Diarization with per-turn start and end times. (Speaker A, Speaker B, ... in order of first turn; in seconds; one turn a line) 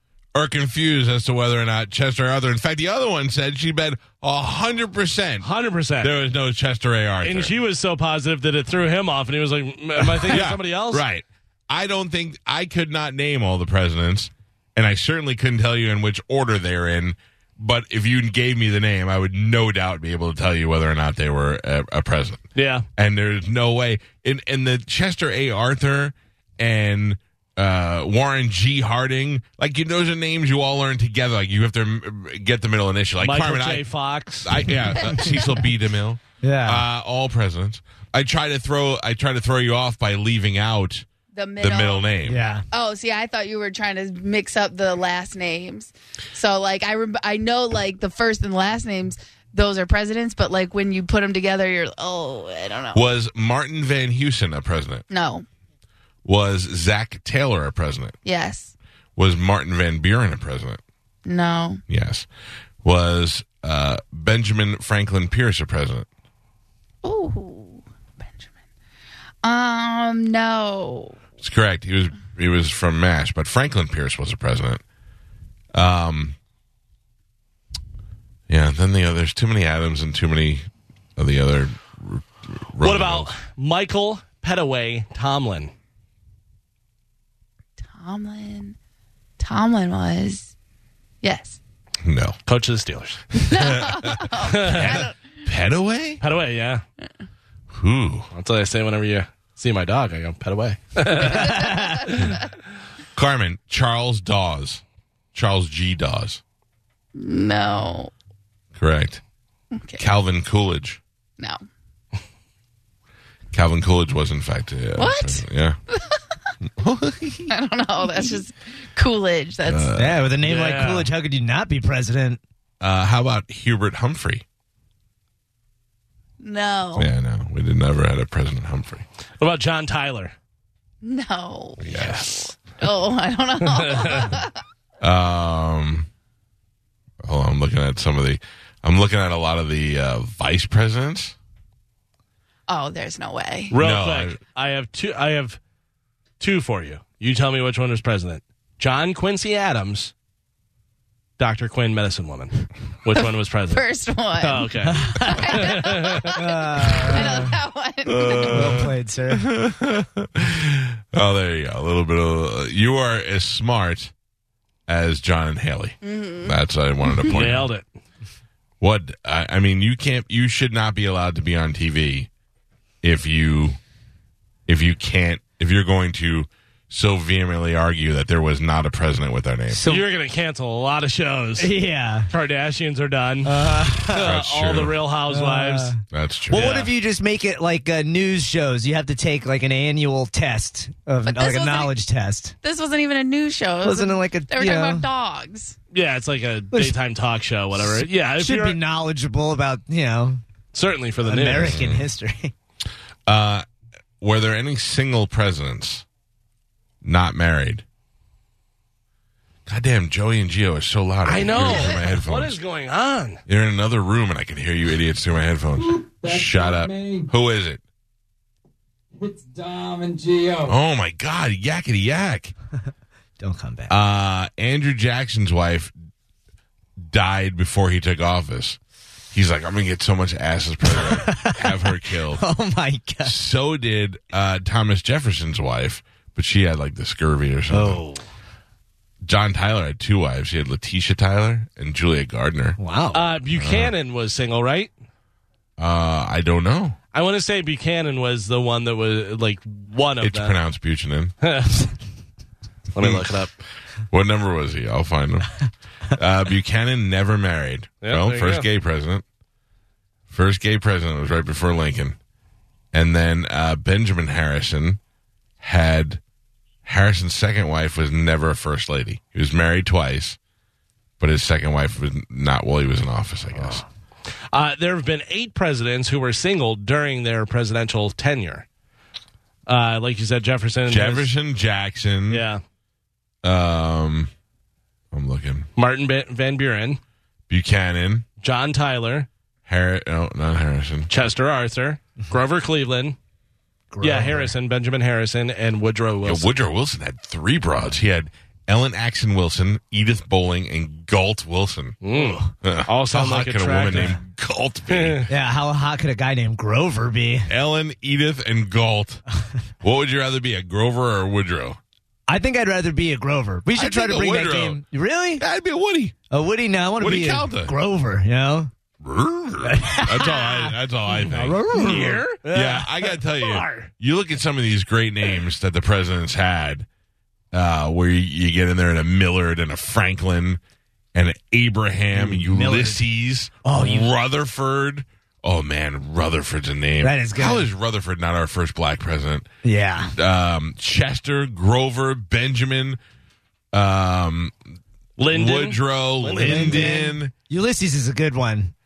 Speaker A: 0.3-7.5
Speaker B: 5.4-6.2
Speaker B: 7.2-11.0
Speaker A: 10.2-22.4
Speaker B: 22.5-22.9
Speaker A: 23.0-33.9
Speaker B: 33.2-34.5
Speaker A: 34.4-41.0
Speaker C: 34.9-35.4
Speaker D: 35.0-35.3
Speaker C: 36.4-36.9
Speaker D: 41.3-42.1
Speaker A: 41.6-42.4
Speaker C: 42.2-42.6
Speaker D: 42.7-53.0
Speaker A: 52.9-55.0
Speaker D: 55.1-55.4
Speaker A: 56.2-58.2
Speaker D: 58.2-58.7
Speaker A: 59.1-60.8
Speaker D: 61.2-61.8
Speaker A: 61.9-62.3
Speaker A: 62.8-66.1
Speaker D: 67.0-68.4
Speaker D: 69.4-71.2
Speaker A: 71.4-74.8
Speaker A: 75.7-76.4
Speaker A: 78.5-80.7
Speaker A: 81.2-83.3
Speaker B: 82.8-85.7
Speaker D: 87.8-88.8
Speaker D: 89.4-90.5
Speaker D: 91.2-91.6
Speaker A: 92.0-92.4
Speaker B: 92.5-93.2
Speaker D: 93.3-95.2
Speaker A: 93.5-96.2
Speaker B: 94.4-95.0
Speaker B: 96.2-96.8
Speaker A: 97.7-98.3
Speaker B: 98.3-102.3
Speaker D: 101.2-102.4
Speaker A: 103.1-104.8
Speaker A: 105.3-106.4
Speaker D: 107.1-108.1
Speaker A: 108.7-109.2
Speaker D: 109.7-110.0
Speaker A: 110.0-111.0
Speaker D: 111.4-111.6
Speaker A: 113.5-115.8
Speaker D: 115.0-116.2
Speaker A: 116.7-117.5
Speaker D: 117.5-119.9
Speaker A: 119.6-120.2
Speaker C: 120.0-122.4
Speaker B: 120.4-121.1
Speaker A: 122.8-124.4
Speaker D: 126.4-127.1
Speaker A: 127.0-129.1
Speaker B: 129.4-130.3
Speaker D: 131.0-134.6
Speaker A: 131.8-132.4
Speaker B: 132.0-132.4
Speaker B: 133.6-134.3
Speaker A: 135.0-136.1
Speaker A: 137.2-141.3
Speaker D: 142.7-143.8
Speaker B: 143.7-145.6
Speaker A: 143.7-144.4
Speaker B: 146.4-150.1
Speaker B: 151.4-153.8
Speaker D: 153.7-158.8
Speaker B: 154.4-156.3
Speaker C: 154.8-155.4
Speaker C: 156.2-157.6
Speaker A: 158.1-164.1
Speaker C: 158.5-159.5
Speaker A: 164.9-167.7
Speaker D: 166.0-166.6
Speaker B: 167.3-167.8
Speaker A: 168.8-172.3
Speaker A: 173.0-173.8
Speaker A: 174.7-179.9
Speaker C: 179.7-180.1
Speaker B: 179.8-181.7
Speaker C: 181.6-182.3
Speaker B: 182.3-185.9
Speaker C: 183.4-184.4
Speaker A: 184.2-185.0
Speaker C: 185.3-192.6
Speaker A: 186.1-186.9
Speaker B: 186.5-186.9
Speaker D: 191.2-191.9
Speaker D: 192.6-195.8
Speaker C: 193.8-195.1
Speaker B: 195.9-198.8
Speaker C: 196.7-197.0
Speaker C: 197.7-200.4
Speaker B: 200.7-201.8
Speaker C: 201.2-202.5
Speaker A: 201.6-202.1
Speaker A: 203.3-203.6
Speaker A: 204.2-206.1
Speaker A: 207.0-207.8
Speaker A: 209.7-212.6
Speaker B: 211.2-213.4
Speaker A: 213.5-217.8
Speaker E: 215.8-217.3
Speaker E: 219.1-220.7
Speaker A: 220.7-222.5
Speaker C: 223.4-223.9
Speaker A: 223.9-225.9
Speaker A: 227.1-228.8
Speaker A: 229.3-232.4
Speaker C: 230.9-233.4
Speaker A: 233.2-238.0
Speaker C: 237.7-238.2
Speaker A: 239.2-242.8
Speaker C: 242.8-243.2
Speaker B: 243.1-244.9
Speaker A: 243.5-243.9
Speaker A: 245.8-247.0
Speaker B: 247.1-250.6
Speaker A: 250.2-251.3
Speaker B: 251.4-251.9
Speaker B: 252.9-253.5
Speaker A: 253.0-253.2
Speaker A: 254.1-259.2
Speaker B: 258.0-258.7
Speaker A: 260.3-262.2
Speaker A: 262.9-265.0
Speaker A: 265.6-266.2
Speaker A: 266.8-270.4
Speaker A: 271.2-273.8
Speaker C: 273.5-273.8
Speaker B: 274.3-278.6
Speaker B: 279.7-281.3
Speaker A: 280.9-282.4
Speaker B: 282.3-282.6
Speaker A: 283.4-284.3
Speaker A: 285.1-285.7
Speaker B: 285.8-287.0
Speaker A: 287.5-288.2
Speaker B: 288.4-289.3
Speaker A: 289.6-291.1
Speaker B: 291.1-293.2
Speaker C: 293.9-294.5
Speaker B: 294.0-296.5
Speaker A: 296.2-302.0
Speaker B: 302.0-304.2
Speaker C: 302.1-302.4
Speaker A: 302.6-305.3
Speaker C: 303.9-304.2
Speaker B: 304.9-305.3
Speaker C: 305.3-307.5
Speaker A: 307.5-309.2
Speaker A: 309.8-311.8
Speaker C: 312.3-315.4
Speaker A: 313.7-314.8
Speaker A: 315.4-316.1
Speaker C: 316.3-318.7
Speaker A: 317.0-317.7
Speaker A: 319.0-321.7
Speaker C: 319.6-323.6
Speaker B: 321.7-322.4
Speaker A: 322.4-326.9
Speaker B: 323.4-323.9
Speaker A: 327.5-330.6
Speaker A: 331.1-339.5
Speaker C: 332.1-333.1
Speaker C: 333.6-334.1
Speaker C: 337.0-337.7
Speaker C: 339.6-340.1
Speaker A: 340.1-343.0
Speaker A: 343.7-344.5
Speaker B: 345.2-346.9
Speaker A: 345.2-347.3
Speaker C: 346.2-348.7